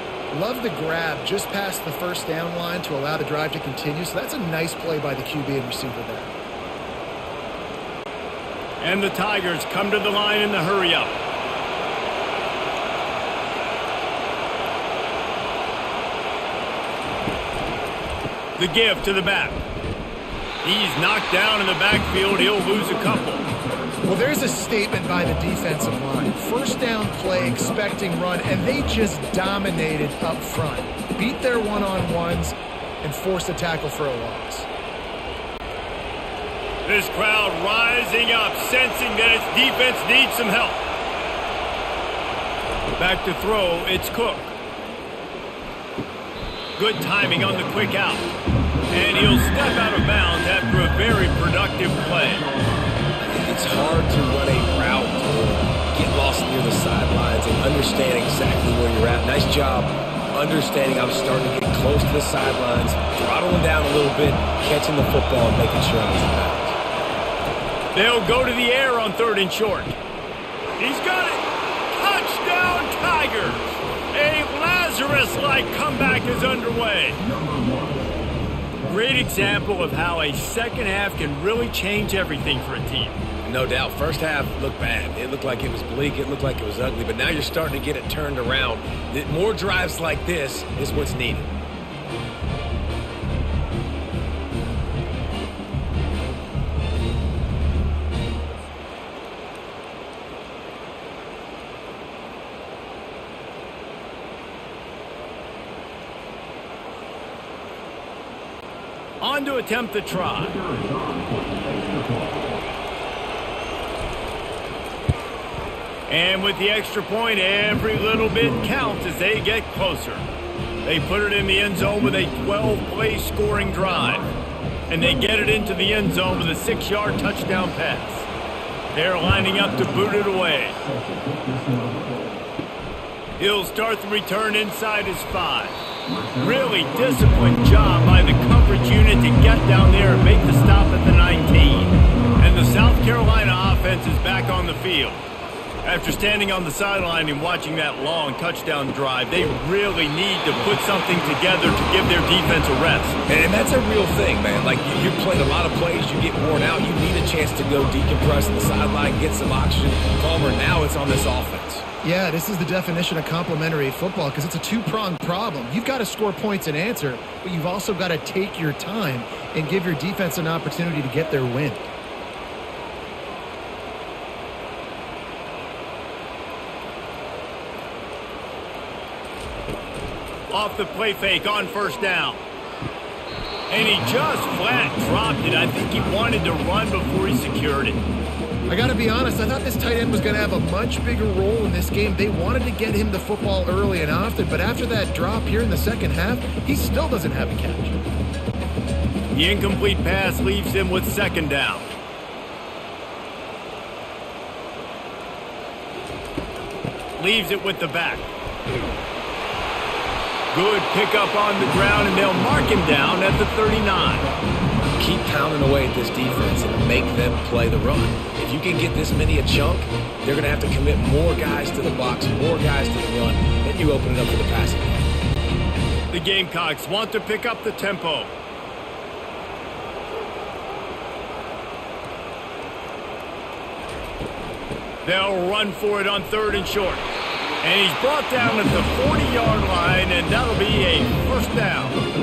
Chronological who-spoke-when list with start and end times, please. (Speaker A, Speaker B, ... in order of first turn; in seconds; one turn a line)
Speaker A: 0.3-6.3
Speaker B: 8.8-11.2
Speaker B: 18.6-19.6
Speaker B: 20.6-23.4
Speaker A: 24.0-34.7
Speaker B: 36.9-40.8
Speaker B: 43.0-44.5
Speaker B: 46.8-48.3
Speaker B: 48.9-52.5
Speaker C: 53.2-66.8
Speaker B: 67.9-70.0
Speaker B: 70.8-77.2
Speaker B: 78.9-83.2
Speaker C: 83.4-91.5
Speaker B: 109.2-110.6
Speaker B: 116.1-120.3
Speaker B: 120.8-124.3
Speaker B: 124.9-128.3
Speaker B: 128.9-130.8
Speaker B: 133.4-145.2
Speaker B: 145.8-153.2
Speaker C: 153.3-161.8
Speaker A: 162.0-171.9
Speaker B: 180.5-182.4
Speaker B: 183.7-188.0
Speaker A: 188.7-198.0
Speaker B: 199.3-201.9
Speaker B: 207.2-208.3
Speaker B: 210.5-214.3
Speaker C: 215.0-225.1
Speaker B: 226.1-228.3
Speaker B: 235.0-237.1
Speaker B: 237.6-242.0